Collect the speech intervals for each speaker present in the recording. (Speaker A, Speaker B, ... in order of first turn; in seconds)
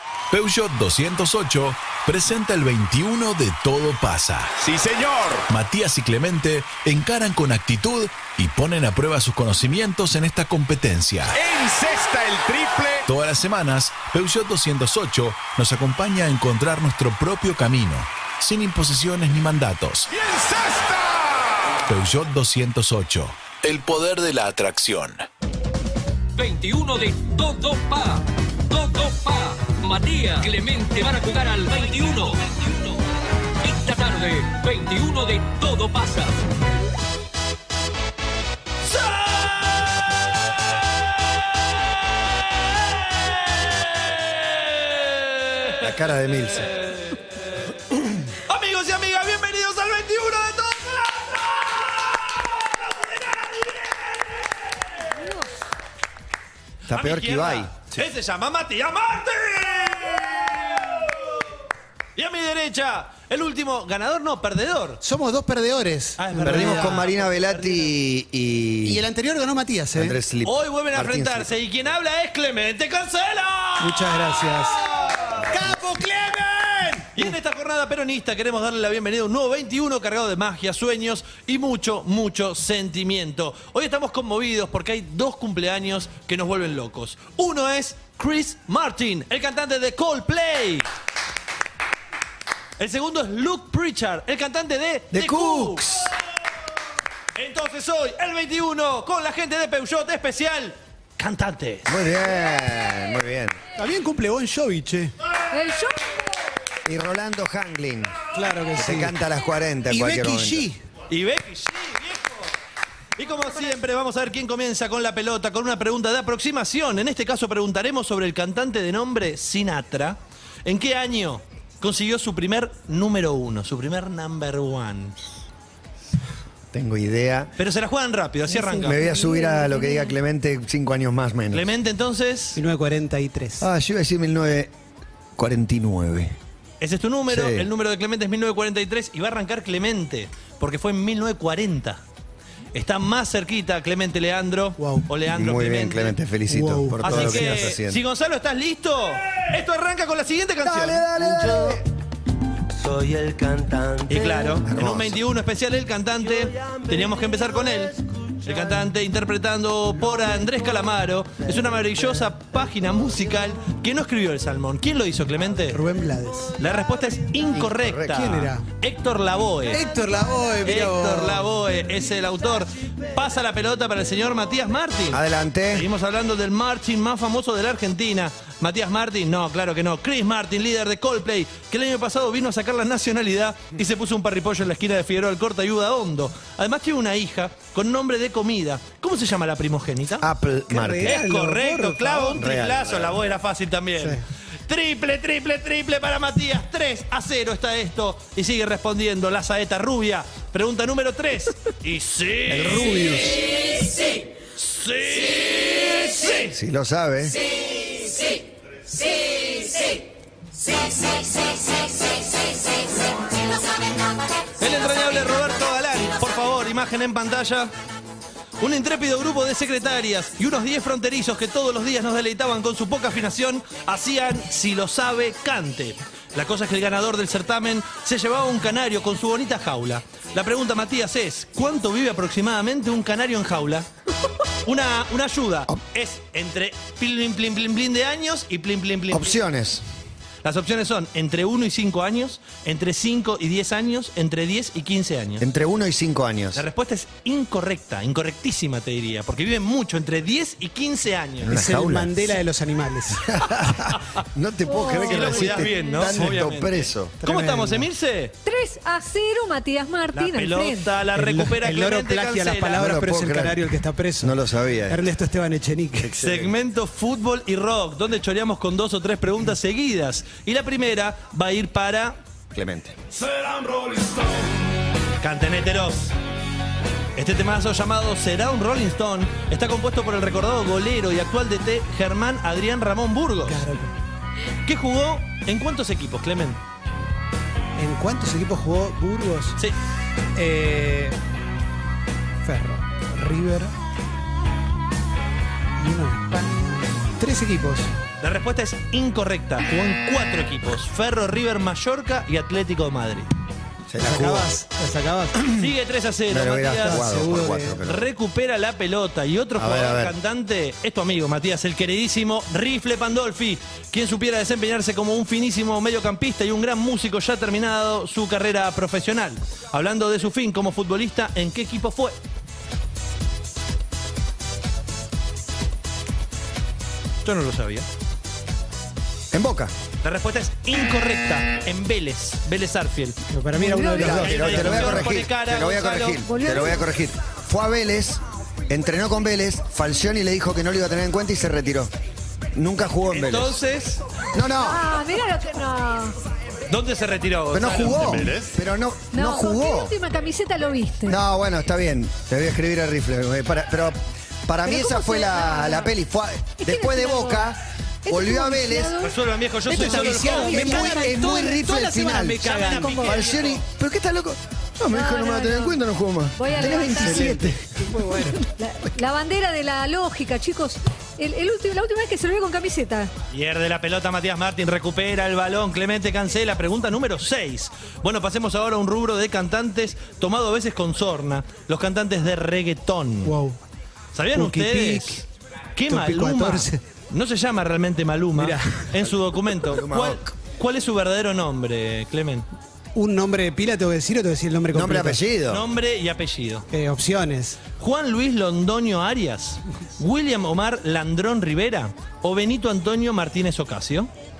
Speaker A: 0.3-25.3
Speaker B: 26.4-33.0, 33.6-36.4
Speaker C: 38.8-40.0, 42.6-45.9, 48.5-55.0, 56.9-61.4, 62.2-65.0, 66.2-67.9, 70.4-75.5, 77.1-90.9, 92.8-96.1, 97.3-102.0, 111.1-112.5, 113.2-125.2, 127.6-129.0, 131.5-132.6, 136.8-142.0, 142.7-146.2, 147.0-151.1, 154.1-165.8, 166.6-169.8, 170.6-190.2, 191.0-203.5, 204.5-206.5, 214.6-217.7, 218.6-233.9, 234.7-239.4, 240.4-245.4, 246.5-251.5, 254.9-258.4, 260.1-262.8, 266.2-272.2, 275.2-276.1, 277.1-283.6, 284.6-286.6, 298.2-303.3, 305.5-307.0, 307.8-322.1, 327.2-327.9, 330.0-333.2, 334.1-336.2, 343.1-344.0, 346.7-348.5, 359.0-361.0, 362.4-363.6, 373.3-383.3, 384.1-392.4, 395.5-396.7, 397.8-404.1
Speaker D: 45.8-46.7, 56.9-58.0, 66.4-69.0, 69.9-71.5, 95.1-96.1, 101.9-103.6, 106.8-108.2, 108.8-110.7, 126.7-127.5, 128.8-131.7, 133.6-134.7, 135.4-136.4, 137.3-137.7, 145.3-148.0, 150.6-151.8, 154.6-155.2, 167.5-168.3, 175.1-175.9, 190.2-191.2, 192.3-193.2, 202.5-203.4, 206.5-207.4, 239.1-239.8, 245.4-246.7, 251.4-252.3, 253.3-257.2, 262.8-263.6, 264.2-265.1, 266.0-266.6, 272.5-272.9, 303.9-304.5, 306.3-308.1, 309.6-310.1, 329.3-329.7, 333.9-341.9, 342.5-343.6, 344.3-344.9, 347.5-349.9, 351.1-359.0, 360.5-367.7, 389.6-390.3, 394.7-395.6
Speaker E: 55.2-55.5, 105.5-106.2, 128.5-130.2, 254.7-256.1, 258.4-260.9, 333.6-334.2, 336.2-336.9, 344.5-346.1, 349.1-351.2, 354.6-355.9, 356.6-357.5, 358.1-359.1, 359.7-361.2, 362.8-363.2, 364.9-365.8, 366.4-367.3, 368.4-373.1
Speaker F: 65.0-67.0, 68.8-70.2, 73.8-74.8, 75.4-77.3, 103.8-105.1, 108.3-109.1, 109.9-110.8, 132.5-133.7, 144.8-145.1, 146.5-147.7, 165.7-166.6, 168.1-168.7, 169.7-171.5, 190.7-192.4, 251.5-253.5, 257.2-257.9, 261.1-266.1, 283.4-283.9, 287.8-289.6, 290.4-291.2, 292.4-293.7, 295.8-297.9, 304.0-305.5, 306.8-307.8, 333.3-335.1, 359.7-363.0, 366.8-368.4, 383.2-383.6, 384.3-385.2, 385.9-386.8, 388.4-388.9, 392.9-395.2, 396.7-397.6
Speaker G: 151.3-151.8, 152.7-154.6, 156.4-157.7